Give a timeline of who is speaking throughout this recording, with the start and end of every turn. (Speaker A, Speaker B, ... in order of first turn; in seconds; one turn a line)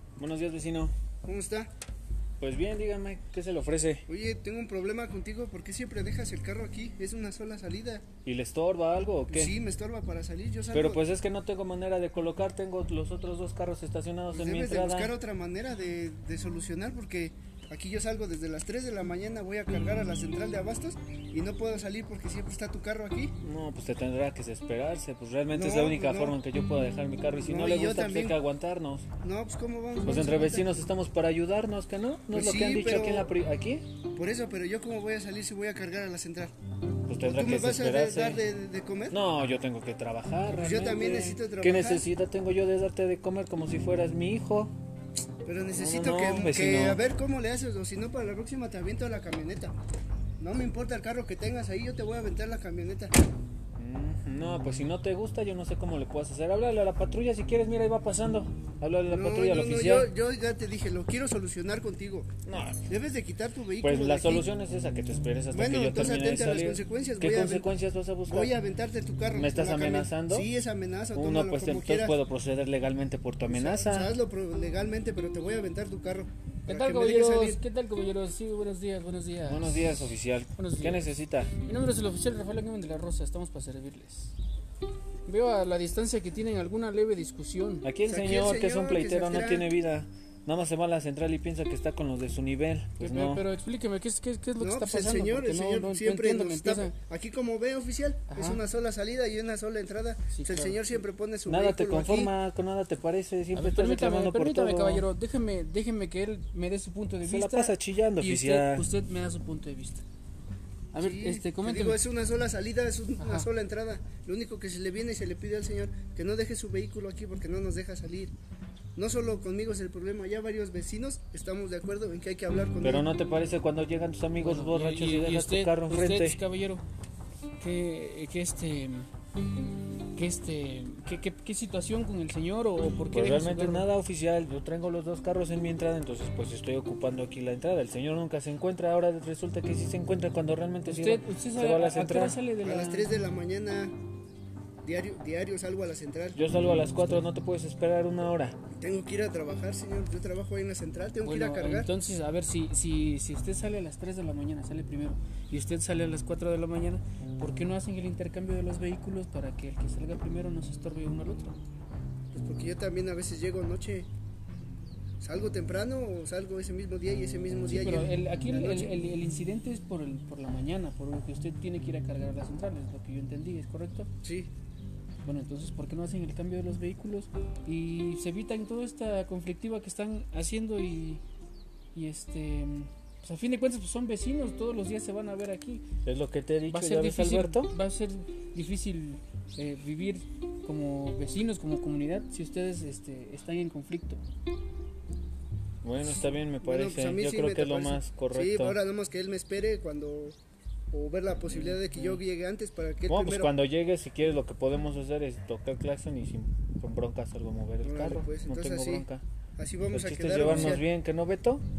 Speaker A: 0.2-0.9
Speaker B: 1.2-1.7
Speaker A: 2.4-4.1
Speaker B: 4.1-8.0
Speaker A: 8.2-9.6
Speaker B: 9.3-11.0
Speaker A: 10.7-15.1
Speaker B: 14.3-23.4
Speaker A: 23.4-29.1
Speaker B: 25.5-26.4
Speaker B: 27.4-28.4
Speaker B: 29.2-30.8
Speaker A: 30.0-33.9
Speaker B: 32.3-33.3
Speaker B: 34.1-36.5
Speaker A: 37.1-38.4
Speaker B: 37.2-39.2
Speaker A: 39.1-44.7
Speaker B: 40.6-42.0
Speaker B: 45.5-49.7
Speaker A: 45.7-47.0
Speaker B: 50.4-53.1
Speaker A: 53.8-60.1
Speaker B: 59.1-62.3
Speaker A: 62.5-62.9
Speaker B: 62.9-64.5
Speaker A: 63.8-68.5
Speaker B: 65.5-67.7
Speaker B: 68.3-72.2
Speaker A: 69.3-70.5
Speaker A: 71.1-74.1
Speaker B: 73.5-77.6
Speaker C: 76.7-81.1
Speaker A: 79.5-81.5
Speaker C: 81.6-84.4
Speaker C: 85.3-87.9
Speaker A: 87.8-93.5
Speaker B: 88.1-89.7
Speaker C: 93.0-96.9
Speaker B: 94.6-102.3
Speaker C: 98.3-98.6
Speaker C: 100.3-100.9
Speaker A: 101.5-105.1
Speaker C: 103.5-110.0
Speaker A: 107.2-108.9
Speaker C: 110.9-112.0
Speaker B: 111.0-118.3
Speaker C: 113.2-113.5
Speaker B: 119.0-123.1
Speaker A: 122.8-126.4
Speaker C: 124.4-126.8
Speaker C: 127.6-129.1
Speaker C: 130.2-133.9
Speaker A: 133.1-142.4
Speaker C: 140.8-143.1
Speaker B: 142.6-143.9
Speaker B: 144.8-146.4
Speaker A: 146.3-148.6
Speaker C: 146.5-147.2
Speaker B: 148.8-151.9
Speaker C: 151.2-161.6
Speaker B: 162.3-164.1
Speaker B: 165.2-169.0
Speaker C: 167.7-174.1
Speaker B: 174.2-174.5
Speaker C: 175.2-181.2
Speaker C: 181.9-185.8
Speaker A: 186.1-187.7
Speaker C: 186.7-194.2
Speaker A: 195.8-198.8
Speaker B: 196.6-200.4
Speaker B: 200.9-203.5
Speaker A: 203.1-209.2
Speaker B: 207.8-209.1
Speaker B: 209.6-210.9
Speaker A: 209.9-211.6